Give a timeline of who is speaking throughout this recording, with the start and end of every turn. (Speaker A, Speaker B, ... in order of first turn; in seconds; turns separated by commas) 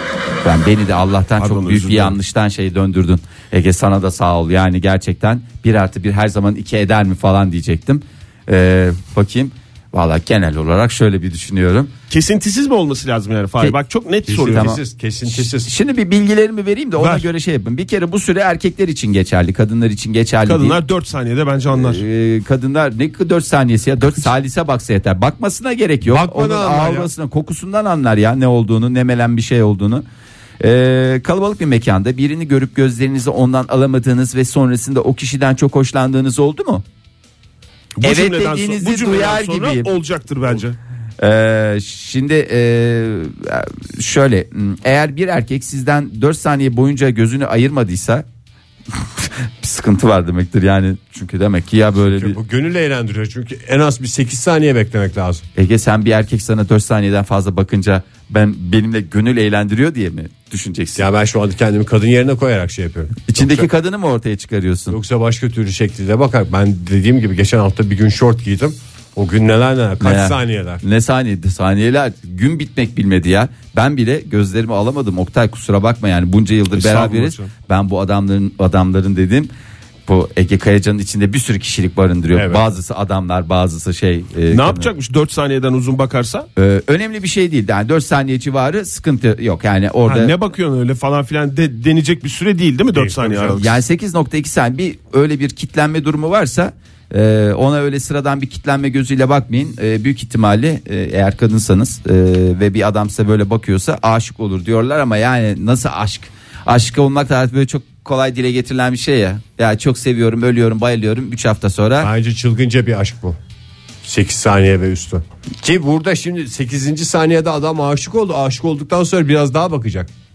Speaker A: 0.4-11.9, Speaker B: 1.4-2.2, Speaker B: 12.1-14.7, Speaker C: 14.3-15.7, Speaker A: 14.5-20.8, Speaker B: 17.0-17.3, Speaker B: 20.4-22.0, Speaker A: 21.7-30.0, Speaker C: 26.0-27.1, Speaker A: 30.6-36.8, Speaker B: 38.0-40.8, Speaker A: 38.0-39.9, Speaker A: 41.2-48.2, Speaker A: 48.9-52.4, Speaker C: 51.9-55.4, Speaker A: 55.5-61.1, Speaker C: 61.0-63.7, Speaker A: 63.3-65.0, Speaker C: 64.9-70.8, Speaker A: 70.0-79.5, Speaker B: 76.7-77.5, Speaker A: 80.1-84.9, Speaker C: 82.3-82.6, Speaker B: 84.5-86.5, Speaker A: 86.5-90.3, Speaker B: 90.0-93.7, Speaker C: 92.9-93.6, Speaker A: 93.5-112.1, Speaker C: 112.0-113.4, Speaker C: 114.0-120.1